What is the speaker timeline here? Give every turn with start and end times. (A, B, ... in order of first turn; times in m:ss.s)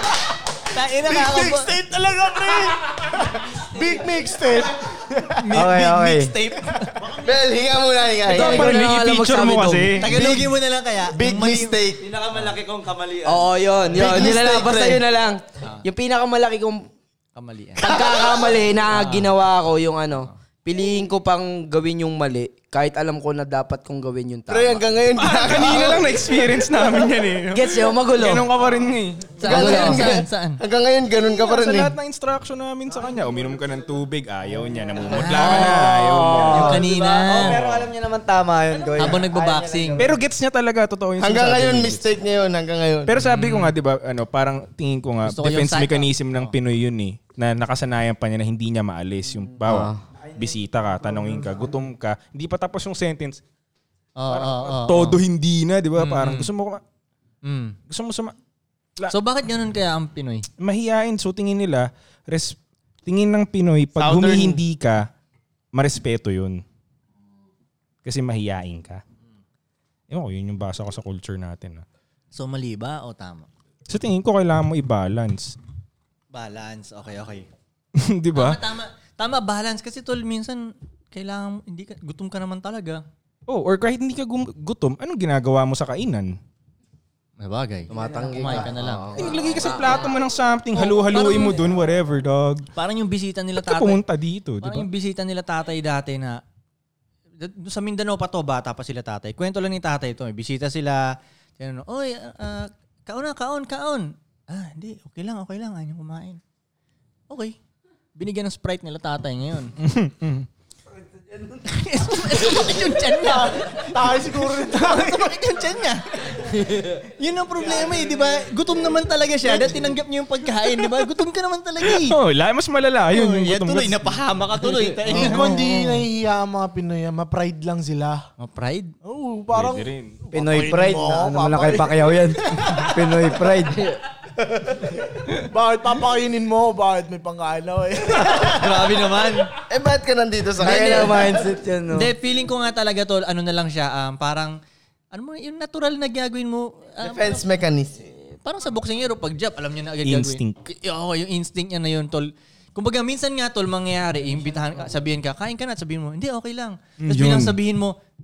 0:00.6-0:01.8 A
0:00.9-0:05.5 B
0:05.4-0:07.1 A
0:05.5-0:06.3 C
0:07.2-0:08.7 D
0:08.3-0:10.0 E
0:08.3-0:10.3 F
0:10.0-0:11.8 A
0:10.0-0:10.5 D
0:11.1-0:12.1 D
0:12.0-0:14.9 G
0:13.3-0:16.9 E
0:13.9-0:14.9 D
0:17.4-0:17.9 A
0:17.8-0:24.8 E
0:17.8-0:18.5 D
0:18.9-0:19.3 A
0:24.5-0:26.2 D
0:25.2-0:29.9 F
0:27.5-0:28.5 E
0:29.4-0:30.6 A
0:29.4-0:31.9 D
0:29.5-0:30.2 E
0:31.2-0:36.9 F
0:34.6-0:40.2 C
0:35.1-0:35.9 A
0:36.4-0:37.6 A
0:39.0-0:40.0 A
0:40.0-0:42.1 F
0:41.2-0:43.1 D
0:43.1-0:53.4 F
0:43.2-0:43.7 A
0:45.3-0:46.6 A
0:49.7-0:50.0 E
0:49.7-0:51.8 C
0:54.2-0:55.2 A
0:54.3-0:56.8 F
0:56.0-0:56.5 A
0:57.4-0:57.8 A
0:57.9-0:58.4 F
0:59.1-1:00.5 A
1:00.6-1:05.1 F
1:04.0-1:04.6 D
1:05.7-1:06.6 F
1:08.0-1:09.0 F
1:10.1-1:11.8 F
1:12.3-1:13.5 A
1:13.9-1:15.6 F
1:16.3-1:17.5 A
1:17.9-1:18.6 F
1:18.3-1:23.0 A
1:23.5-1:26.4 F
1:27.4-1:29.2 A
1:27.9-1:30.2 E
1:27.9-1:28.7 C
1:29.1-1:32.7 F
1:31.1-1:31.6 A
1:32.7-1:34.0 A
1:33.6-1:34.9 F
1:34.6-1:36.4 A
1:37.4-1:46.4 A
1:47.3-1:47.6 A
1:48.2-1:49.7 A
1:49.8-1:50.5 F
1:51.6-2:02.2 A
1:53.1-1:55.4 B
1:59.4-1:59.8 B
2:01.8-2:04.2 F
2:03.1-2:06.0 A
2:05.1-2:08.2 B
2:08.4-2:08.9 A
2:09.0-2:13.4 B
2:09.5-2:10.2 F
2:10.3-2:13.9 C
2:13.7-2:14.0 E
2:15.2-2:19.0 B
2:18.2-2:19.5 A
2:19.7-2:21.4 D
2:20.6-2:22.1 C
2:21.9-2:24.6 A
2:25.1-2:27.5 A
2:27.0-2:28.1 D
2:28.1-2:38.0 A
2:30.0-2:30.6 F
2:37.0-2:37.6 F